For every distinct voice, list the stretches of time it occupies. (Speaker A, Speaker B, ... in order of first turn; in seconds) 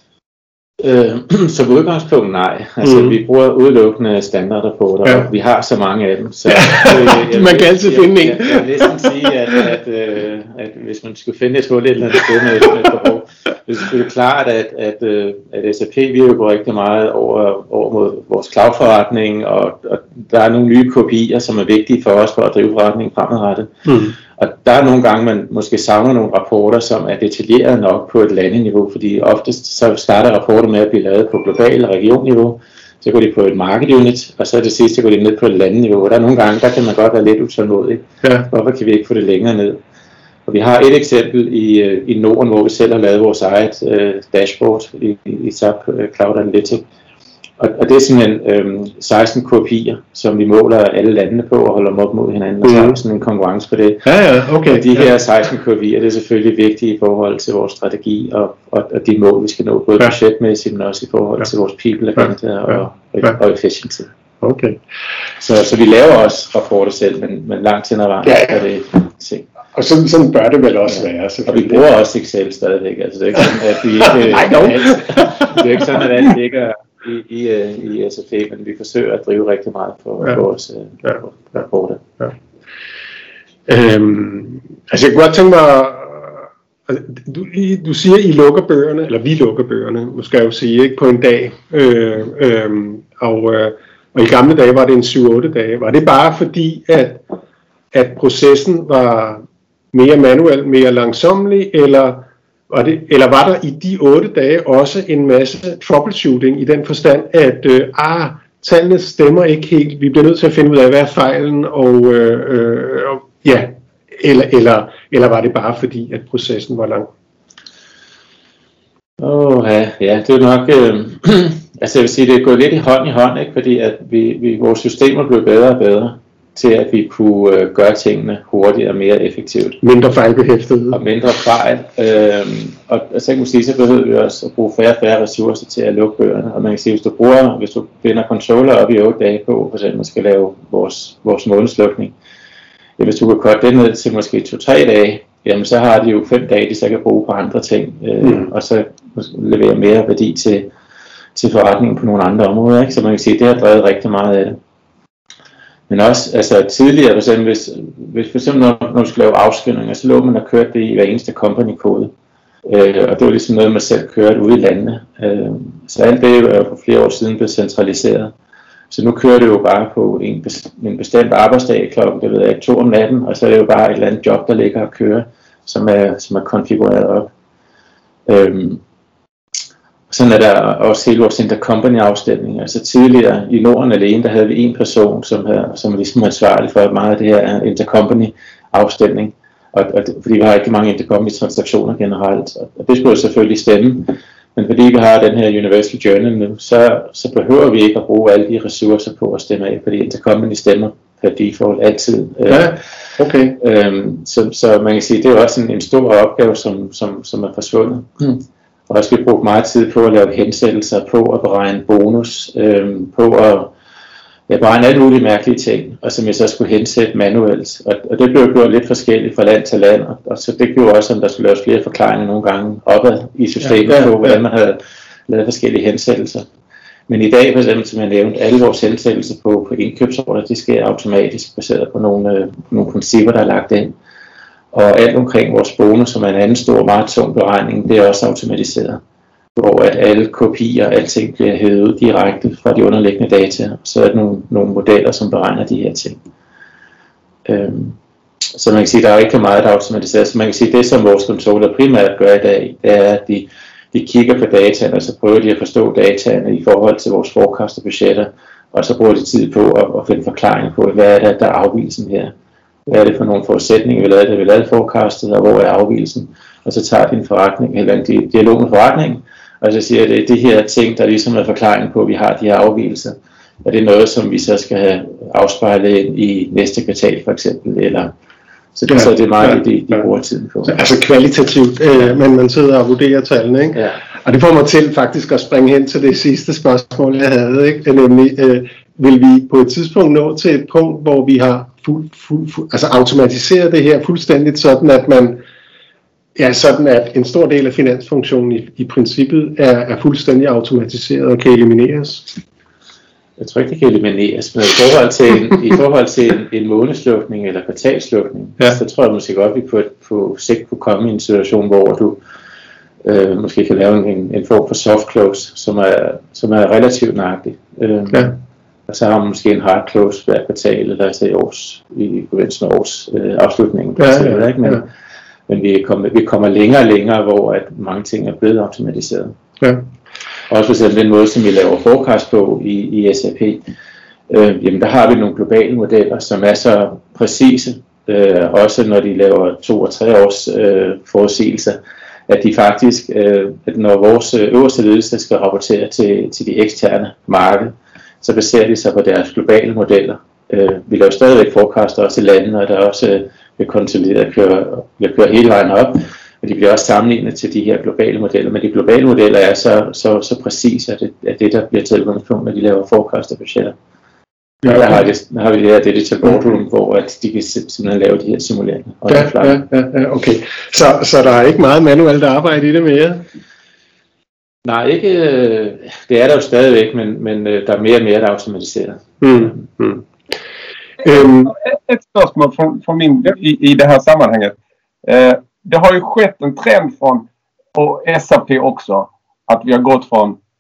Speaker A: 0.8-39.8, 40.5-46.8, 47.6-54.1, 54.7-64.1, 65.4-69.5, 71.5-82.1, 119.2-129.8, 130.9-142.1, 143.0-150.7, 151.3-154.6, 155.9-162.1, 162.7-168.3, 168.9-177.3, 178.3-178.8, 180.1-202.8, 203.6-213.7, 214.5-226.5, 227.1-233.9, 234.7-239.0, 239.6-246.2, 247.4-248.0, 248.5-262.3, 262.9-278.1, 278.8-280.8, 303.4-312.2, 313.0-324.9, 325.5-329.3, 330.5-333.6, 334.3-363.8, 364.6-369.6, 374.6-379.6
Speaker B: 2.8-3.2, 6.5-9.1, 23.9-24.1, 38.2-38.5, 52.6-53.0, 54.0-55.1, 64.4-64.8, 68.2-68.6, 69.7-71.8, 74.0-75.6, 83.7-97.2, 97.9-117.1, 129.8-131.0, 148.2-148.5, 202.5-203.6, 223.8-224.4, 278.9-280.0, 280.7-295.4, 296.4-302.4, 324.0-324.8, 369.1-373.2, 379.2-380.1, 381.0-381.5
Speaker C: 381.5-390.4